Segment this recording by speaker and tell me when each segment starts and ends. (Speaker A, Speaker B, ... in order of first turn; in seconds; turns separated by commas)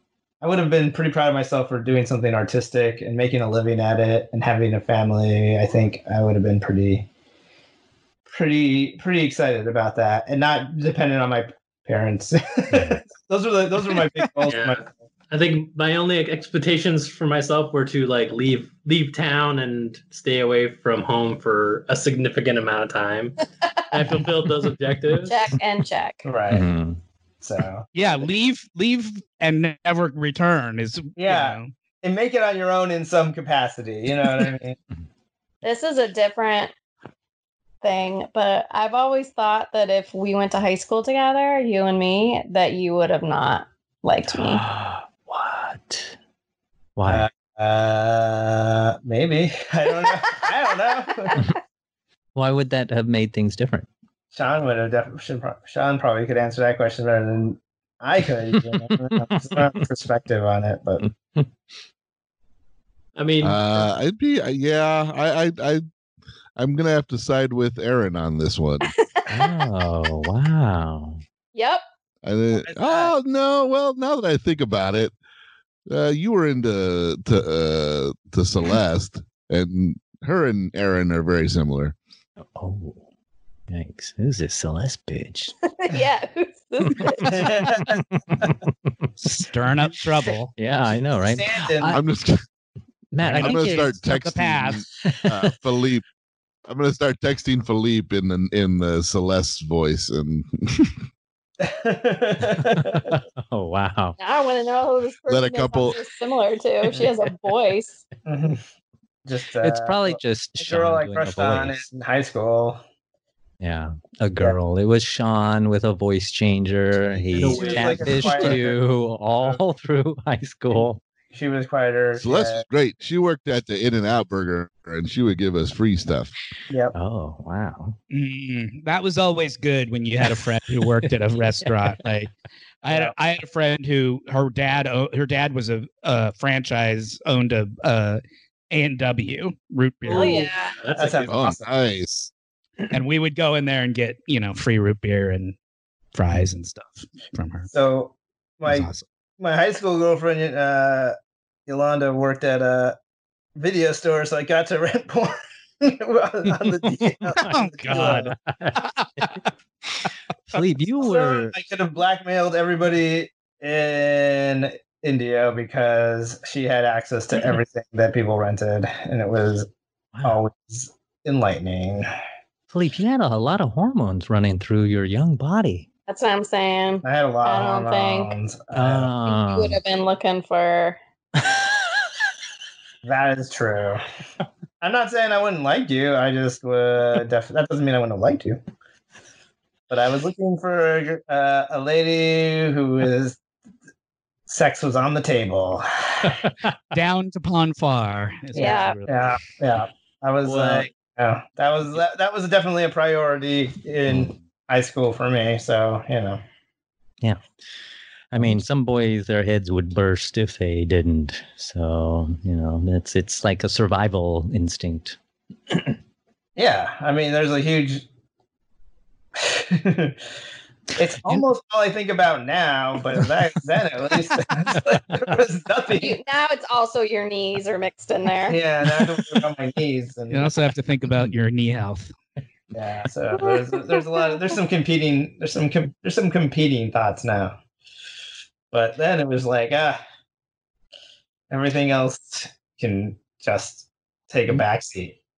Speaker A: 0.4-7.1, Speaker A: 8.3-14.9, Speaker B: 12.7-13.0, Speaker C: 13.9-14.5, Speaker D: 14.5-25.5, Speaker E: 25.3-26.2, Speaker A: 26.2-26.7, Speaker B: 26.5-27.0, Speaker A: 27.4-28.2, Speaker C: 27.9-31.7, Speaker A: 31.2-34.8, Speaker E: 35.6-36.7, Speaker E: 37.8-44.6, Speaker B: 44.3-46.1, Speaker B: 47.0-47.3, Speaker A: 47.1-51.4, Speaker B: 52.4-53.9, Speaker A: 54.3-61.1, Speaker B: 58.5-59.8, Speaker B: 61.0-61.5, Speaker D: 63.1-63.9, Speaker F: 63.4-65.8, Speaker F: 66.6-68.9, Speaker E: 68.8-70.2, Speaker B: 69.3-71.2, Speaker E: 71.5-71.8, Speaker F: 72.2-75.1, Speaker A: 72.6-73.1, Speaker F: 75.9-82.0, Speaker B: 82.4-83.0, Speaker B: 83.7-85.5, Speaker E: 85.7-87.6, Speaker B: 86.9-89.1, Speaker A: 87.2-88.5, Speaker C: 89.2-90.5, Speaker B: 90.6-92.0, Speaker A: 91.2-92.0, Speaker F: 91.9-92.4, Speaker B: 93.1-94.1, Speaker C: 93.2-94.9, Speaker F: 93.4-96.0, Speaker B: 95.0-95.5, Speaker F: 96.7-101.0, Speaker A: 101.6-103.1, Speaker B: 102.6-104.2, Speaker E: 104.2-108.0, Speaker F: 105.3-106.0, Speaker A: 108.3-108.6, Speaker A: 109.3-112.8, Speaker B: 109.6-111.9, Speaker B: 113.6-121.0, Speaker A: 117.0-118.8, Speaker D: 117.3-118.7, Speaker A: 120.7-122.6, Speaker F: 122.1-126.3, Speaker A: 126.7-127.0, Speaker B: 126.9-128.0, Speaker C: 128.1-132.3, Speaker B: 130.3-132.1, Speaker C: 132.8-140.5, Speaker D: 140.0-141.4, Speaker E: 140.1-140.7, Speaker A: 140.9-141.6, Speaker F: 141.3-142.3, Speaker C: 142.9-145.6, Speaker C: 146.1-147.7, Speaker A: 147.7-151.2, Speaker C: 148.7-149.1, Speaker A: 151.7-153.0, Speaker A: 153.6-158.3, Speaker B: 156.8-159.3, Speaker C: 157.5-159.4, Speaker B: 159.8-161.6, Speaker A: 161.0-169.7, Speaker B: 170.1-170.4, Speaker A: 170.2-172.1, Speaker B: 172.7-175.9, Speaker E: 176.1-178.3, Speaker A: 177.0-179.1, Speaker B: 178.7-179.8, Speaker E: 179.3-181.0, Speaker A: 183.0-184.0, Speaker A: 184.8-188.6, Speaker A: 189.9-193.4, Speaker A: 194.5-196.4, Speaker B: 196.4-196.7, Speaker C: 196.9-199.6, Speaker E: 198.5-199.0, Speaker A: 198.6-206.4, Speaker D: 200.4-200.9, Speaker B: 204.1-204.4, Speaker B: 208.3-215.2, Speaker A: 216.6-218.1, Speaker A: 219.4-220.2, Speaker A: 220.9-226.2, Speaker E: 226.0-228.6, Speaker A: 228.4-230.5, Speaker B: 229.0-229.3, Speaker C: 230.3-232.1, Speaker A: 232.7-237.6, Speaker E: 233.4-234.4, Speaker A: 238.7-240.0, Speaker A: 241.5-245.2